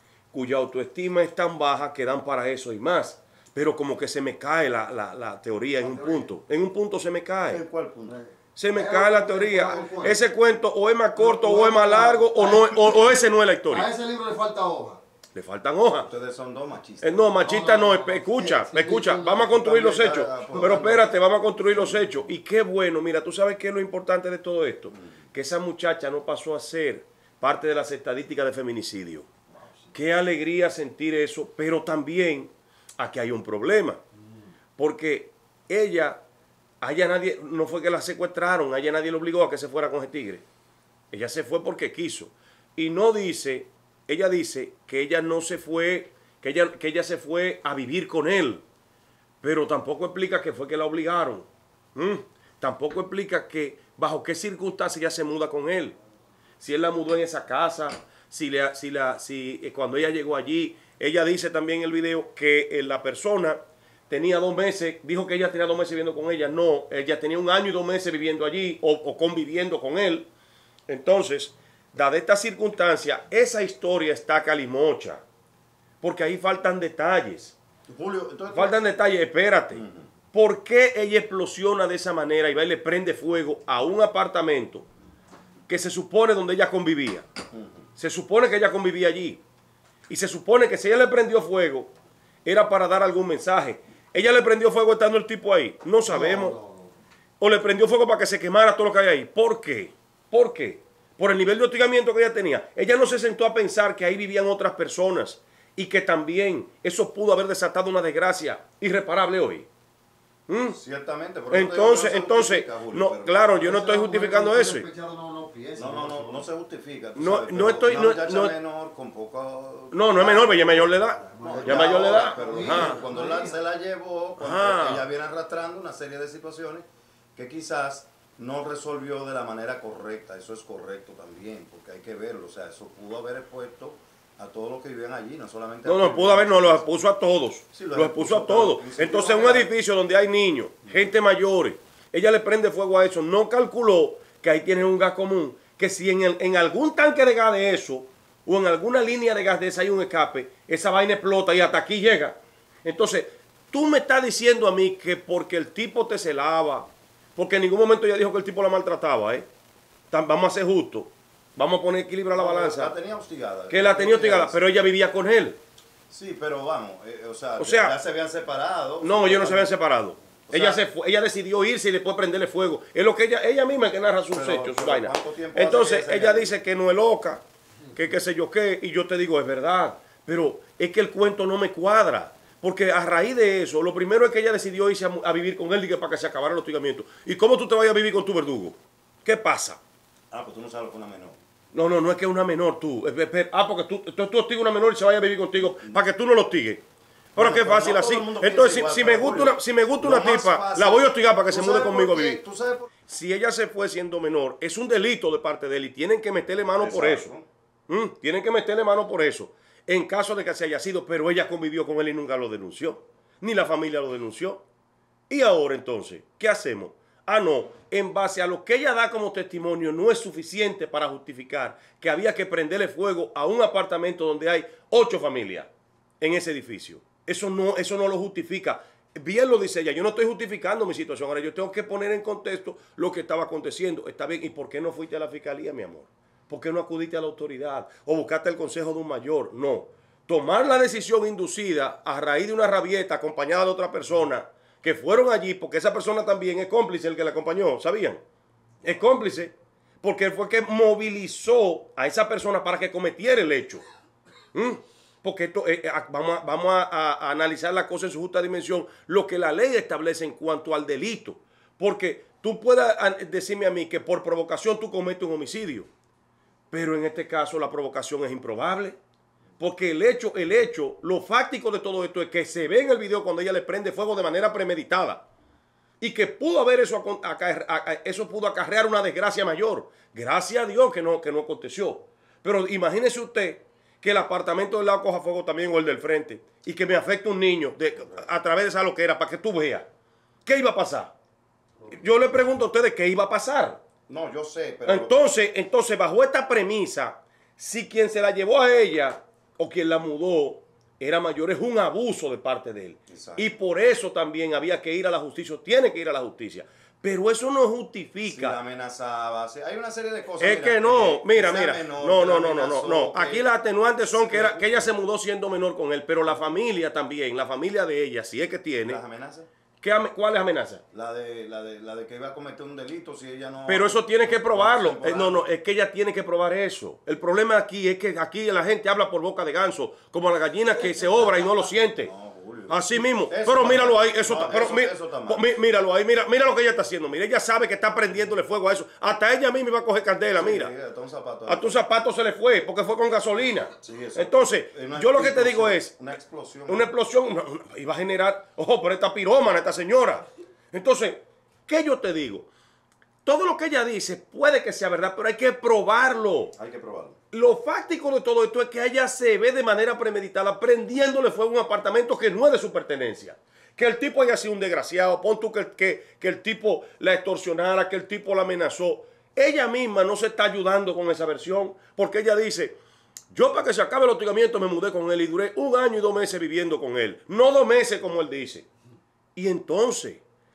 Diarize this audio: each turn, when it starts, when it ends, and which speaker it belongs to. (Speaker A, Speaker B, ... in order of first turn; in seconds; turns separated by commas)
Speaker A: 0.3-7.6, Speaker B: 5.8-6.3, Speaker C: 7.5-8.2, Speaker B: 8.1-10.2, Speaker A: 8.6-13.9, Speaker B: 11.2-15.0, Speaker A: 15.3-16.1, Speaker C: 15.9-17.4, Speaker A: 17.0-29.3, Speaker B: 17.4-19.5, Speaker C: 19.4-21.1, Speaker B: 20.3-21.1, Speaker C: 21.7-22.2, Speaker B: 29.6-29.9, Speaker A: 29.9-34.0, Speaker B: 34.2-34.5, Speaker A: 34.8-36.2, Speaker A: 36.8-40.4, Speaker A: 41.1-48.6, Speaker A: 49.4-56.0, Speaker A: 56.6-63.6, Speaker A: 64.1-70.3, Speaker A: 70.9-75.2, Speaker A: 76.0-77.6, Speaker C: 77.9-78.9, Speaker A: 78.5-84.9, Speaker C: 79.7-80.1, Speaker A: 85.7-87.3, Speaker C: 87.5-87.8, Speaker A: 88.0-89.4, Speaker A: 90.1-91.9, Speaker A: 92.5-96.6, Speaker B: 96.0-97.0, Speaker A: 97.4-109.7, Speaker A: 110.5-110.8, Speaker C: 110.7-113.6, Speaker A: 111.5-114.9, Speaker B: 113.5-116.5, Speaker C: 115.8-136.9, Speaker A: 117.2-118.5, Speaker A: 119.9-123.0, Speaker B: 121.1-123.6, Speaker A: 124.4-125.1, Speaker A: 135.8-159.5, Speaker C: 137.7-139.7, Speaker A: 160.1-162.9, Speaker C: 162.3-164.6, Speaker A: 163.7-165.6, Speaker C: 166.1-169.7, Speaker A: 167.6-168.0, Speaker A: 169.0-189.8, Speaker C: 170.5-170.8, Speaker C: 174.3-176.5, Speaker C: 190.3-191.4, Speaker A: 191.7-196.8, Speaker C: 195.8-196.0, Speaker A: 197.3-202.4, Speaker C: 197.4-202.9, Speaker A: 203.1-207.3, Speaker C: 206.8-207.5, Speaker A: 207.9-214.6, Speaker A: 215.3-248.2, Speaker A: 248.8-253.8, Speaker A: 254.5-265.9, Speaker A: 266.7-269.0, Speaker A: 269.6-275.3, Speaker A: 276.0-289.9, Speaker A: 290.4-291.1, Speaker A: 291.9-293.8, Speaker C: 294.1-295.2, Speaker A: 294.9-308.6, Speaker C: 303.1-303.5, Speaker C: 308.2-313.5, Speaker A: 310.4-319.0, Speaker C: 314.1-314.7, Speaker C: 318.9-319.5, Speaker A: 319.8-320.8, Speaker C: 320.9-325.5, Speaker A: 323.7-332.1, Speaker C: 330.8-335.4, Speaker A: 332.7-340.7, Speaker C: 340.4-341.8, Speaker A: 341.5-345.9, Speaker C: 343.8-346.9, Speaker A: 346.7-352.5, Speaker A: 353.2-356.5, Speaker C: 356.6-357.2, Speaker A: 357.3-372.8, Speaker A: 373.3-378.7, Speaker A: 379.4-380.2